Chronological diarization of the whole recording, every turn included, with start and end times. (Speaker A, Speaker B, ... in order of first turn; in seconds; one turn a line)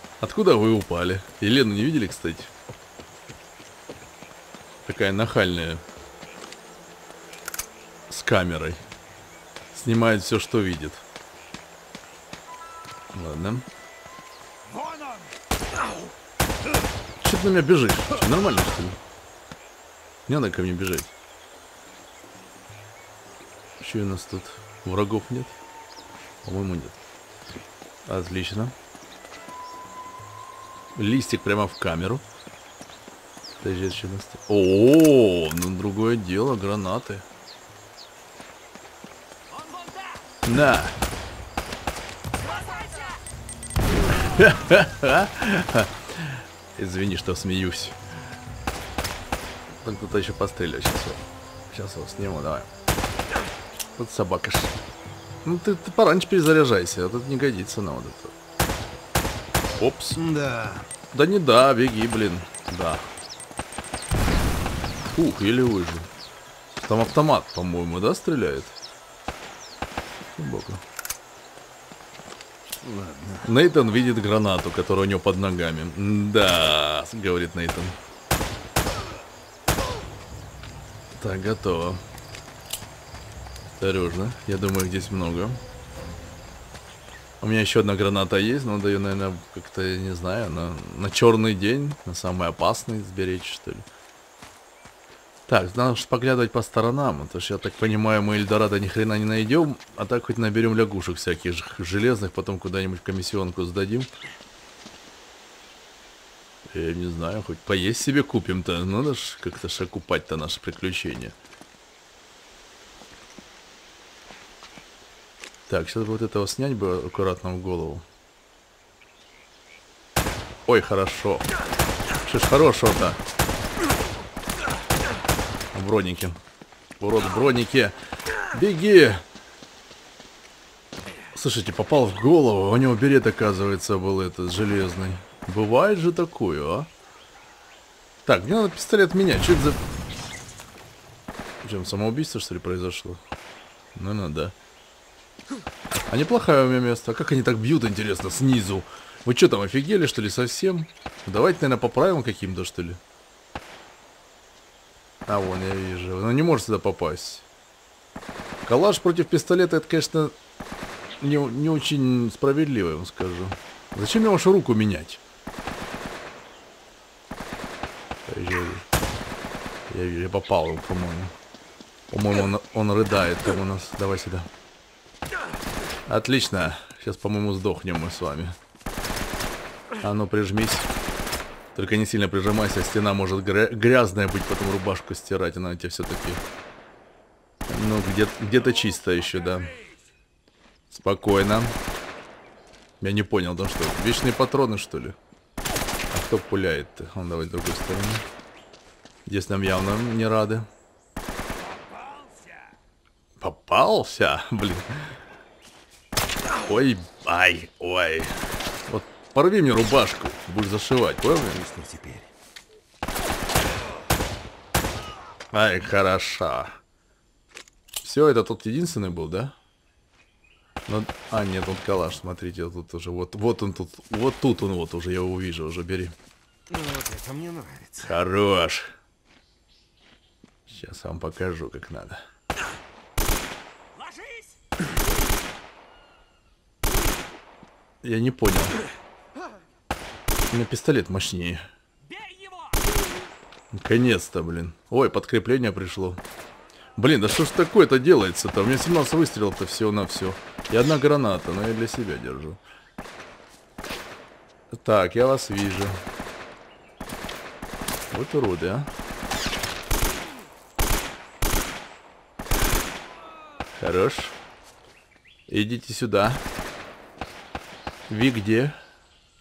Speaker A: 0.2-2.5
Speaker A: 4.8-5.8
Speaker A: 8.1-8.8
Speaker A: 9.7-11.0
Speaker A: 13.1-13.7
Speaker A: 17.2-19.0
Speaker A: 20.3-21.1
Speaker A: 23.8-25.6
Speaker A: 26.4-27.0
Speaker A: 28.1-28.7
Speaker A: 30.9-32.2
Speaker A: 33.6-37.2
Speaker B: 39.7-40.0
Speaker A: 40.5-41.0
Speaker B: 42.6-43.1
Speaker A: 44.3-48.0
Speaker A: 49.8-52.7
Speaker A: 54.0-54.7
Speaker A: 55.4-58.3
Speaker A: 59.8-60.2
Speaker C: 60.1-60.9
Speaker A: 61.1-63.1
Speaker A: 65.1-66.1
Speaker A: 66.7-68.7
Speaker A: 70.3-70.8
Speaker C: 72.7-73.4
Speaker A: 73.4-78.0
Speaker A: 81.2-82.0
Speaker A: 83.7-85.6
Speaker A: 87.4-93.8
Speaker A: 95.5-104.1
Speaker A: 106.7-111.3
Speaker A: 115.7-118.0
Speaker A: 120.7-121.5
Speaker A: 122.2-123.2
Speaker A: 125.7-126.4
Speaker A: 127.0-128.0
Speaker A: 128.5-129.2
Speaker A: 131.3-136.9
Speaker A: 138.2-139.8
Speaker A: 141.6-143.2
Speaker A: 143.9-144.5
Speaker A: 146.1-153.0
Speaker A: 155.3-157.4
Speaker A: 158.6-160.3
Speaker A: 161.2-165.2
Speaker A: 168.3-168.8
Speaker A: 169.9-171.3
Speaker A: 172.1-174.5
Speaker A: 176.1-178.6
Speaker A: 180.0-180.9
Speaker A: 181.7-186.4
Speaker A: 187.7-189.7
Speaker A: 190.9-191.8
Speaker A: 193.0-195.2
Speaker A: 196.1-198.2
Speaker A: 199.2-200.7
Speaker A: 203.4-205.2
Speaker A: 206.6-211.6
Speaker C: 211.5-212.3
Speaker A: 215.5-216.8
Speaker A: 218.0-219.5
Speaker A: 220.9-226.1
Speaker C: 226.7-228.1
Speaker A: 228.0-228.9
Speaker A: 230.7-232.2
Speaker B: 234.0-234.5
Speaker A: 238.0-238.8
Speaker A: 240.5-241.6
Speaker B: 242.1-242.7
Speaker A: 243.7-246.2
Speaker A: 247.0-252.6
Speaker A: 254.7-256.0
Speaker A: 258.1-258.9
Speaker A: 263.8-264.4
Speaker A: 265.5-266.4
Speaker A: 268.1-268.8